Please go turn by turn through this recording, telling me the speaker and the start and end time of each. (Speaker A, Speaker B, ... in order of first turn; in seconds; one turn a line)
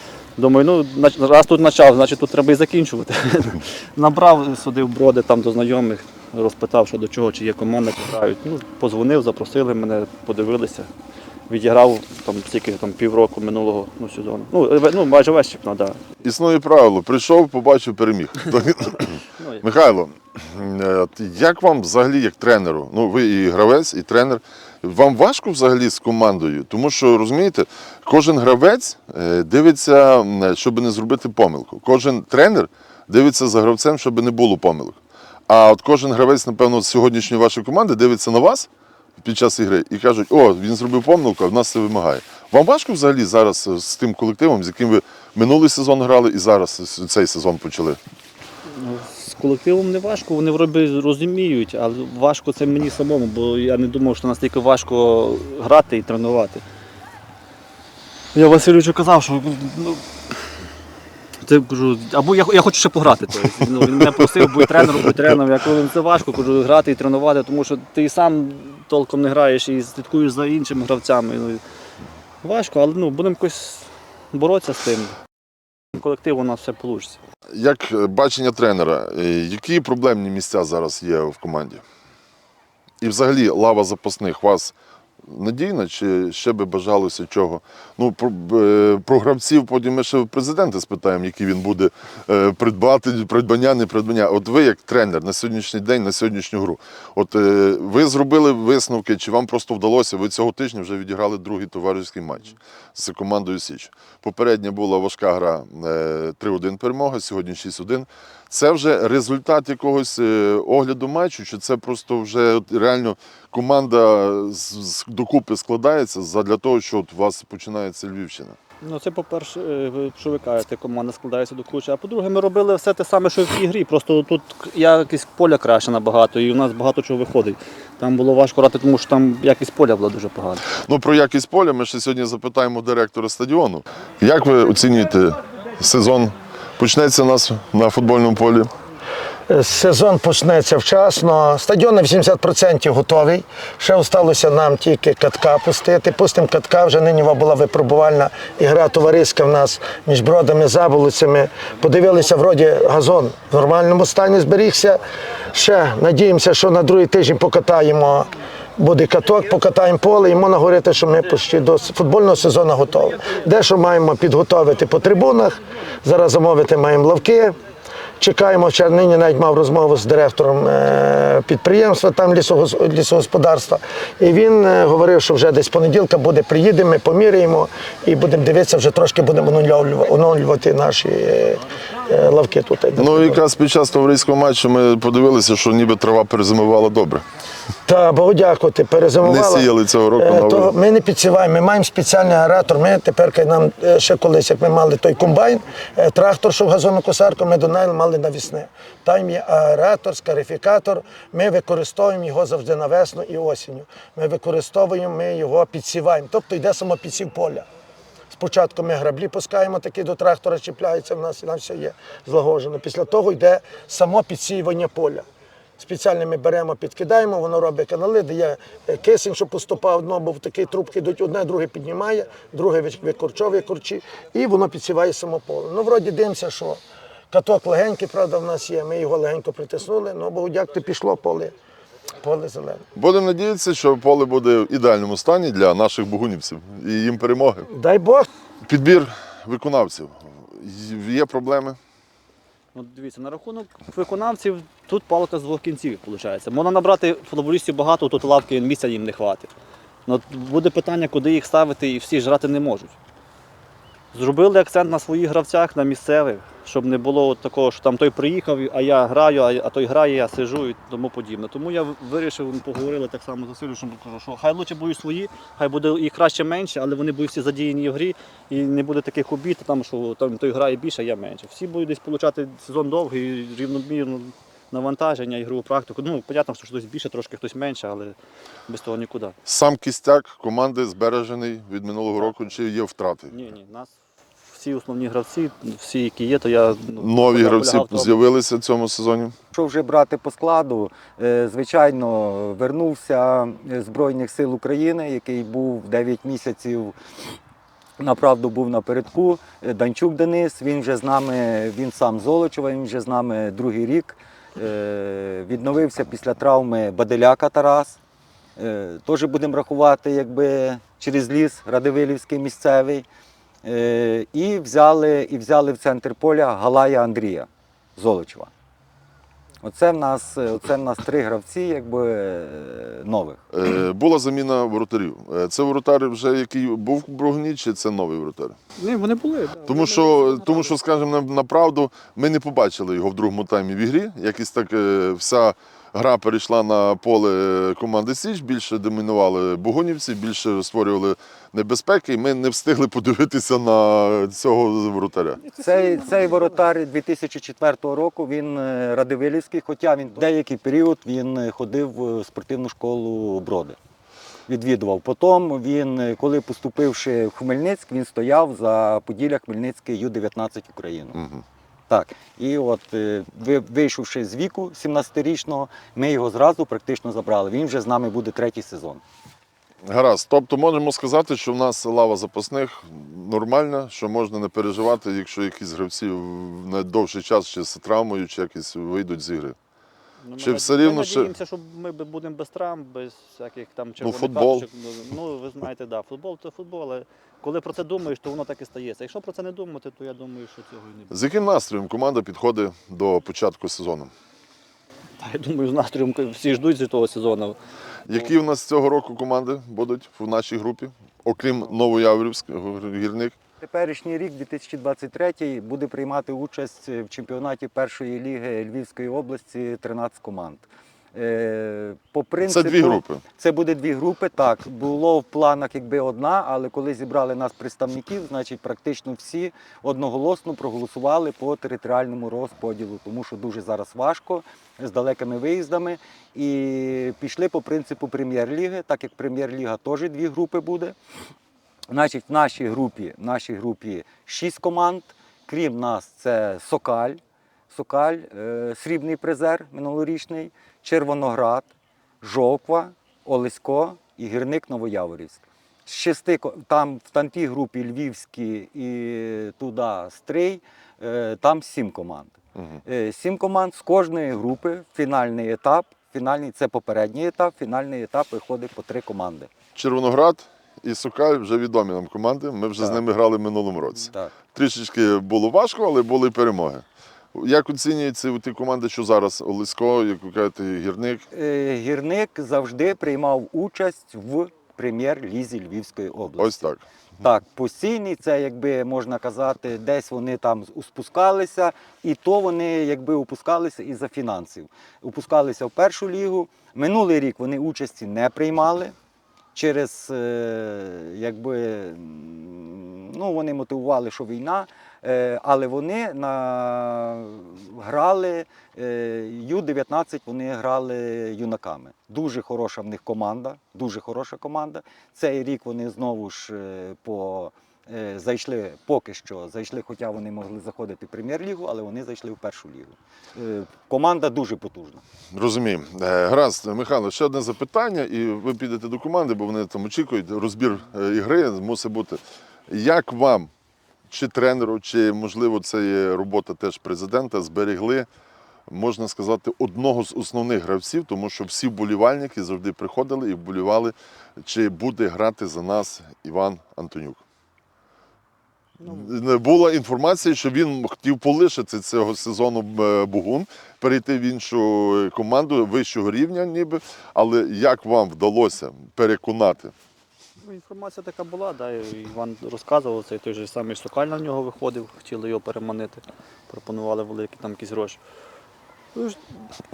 Speaker A: 0.4-10.9
Speaker A: 11.5-16.0
Speaker B: 16.2-48.0
Speaker A: 19.4-19.6
Speaker A: 48.7-56.6
Speaker A: 58.3-60.3
Speaker A: 61.4-71.6
Speaker A: 72.4-75.2
Speaker A: 76.0-77.2
Speaker B: 77.5-81.8
Speaker B: 83.0-118.6
Speaker A: 118.8-130.7
Speaker B: 130.7-138.7
Speaker C: 139.5-167.6
Speaker C: 168.2-183.4
Speaker B: 183.0-187.2
Speaker C: 187.8-207.7
Speaker B: 189.2-190.7
Speaker C: 208.3-215.2
Speaker C: 215.8-226.8
Speaker C: 227.3-231.5
Speaker C: 232.2-232.8
Speaker B: 232.9-237.7
Speaker C: 237.7-238.3
Speaker B: 238.6-241.8
Speaker A: 242.7-249.5
Speaker A: 250.1-253.0
Speaker A: 254.1-278.1
Speaker A: 278.7-279.4
Speaker B: 279.5-283.3
Speaker A: 283.3-288.2
Speaker B: 287.0-289.4
Speaker D: 289.5-297.0
Speaker D: 298.0-308.0
Speaker D: 308.6-313.1
Speaker D: 313.6-318.5
Speaker D: 319.6-323.4
Speaker B: 323.5-328.6
Speaker A: 328.8-330.7
Speaker B: 329.6-345.4
Speaker A: 345.5-346.4
Speaker D: 345.6-353.8
Speaker D: 354.5-361.2
Speaker B: 361.1-361.4
Speaker D: 361.9-369.0
Speaker B: 369.9-379.6
Speaker A: 380.2-391.1
Speaker B: 380.4-381.3
Speaker B: 384.0-384.6
Speaker B: 391.1-394.1
Speaker A: 395.2-397.6
Speaker B: 398.1-403.4
Speaker D: 403.6-431.0
Speaker B: 412.5-413.2
Speaker D: 431.9-441.7
Speaker D: 442.2-459.5
Speaker B: 452.6-452.8
Speaker B: 459.8-471.3
Speaker D: 471.3-476.6
Speaker B: 476.4-476.9
Speaker D: 477.2-488.9
Speaker D: 489.6-515.0
Speaker B: 515.3-523.5
Speaker B: 524.1-528.1
Speaker B: 528.7-537.2
Speaker A: 538.8-539.1
Speaker B: 538.8-549.7
Speaker A: 550.4-558.0
Speaker A: 559.0-559.5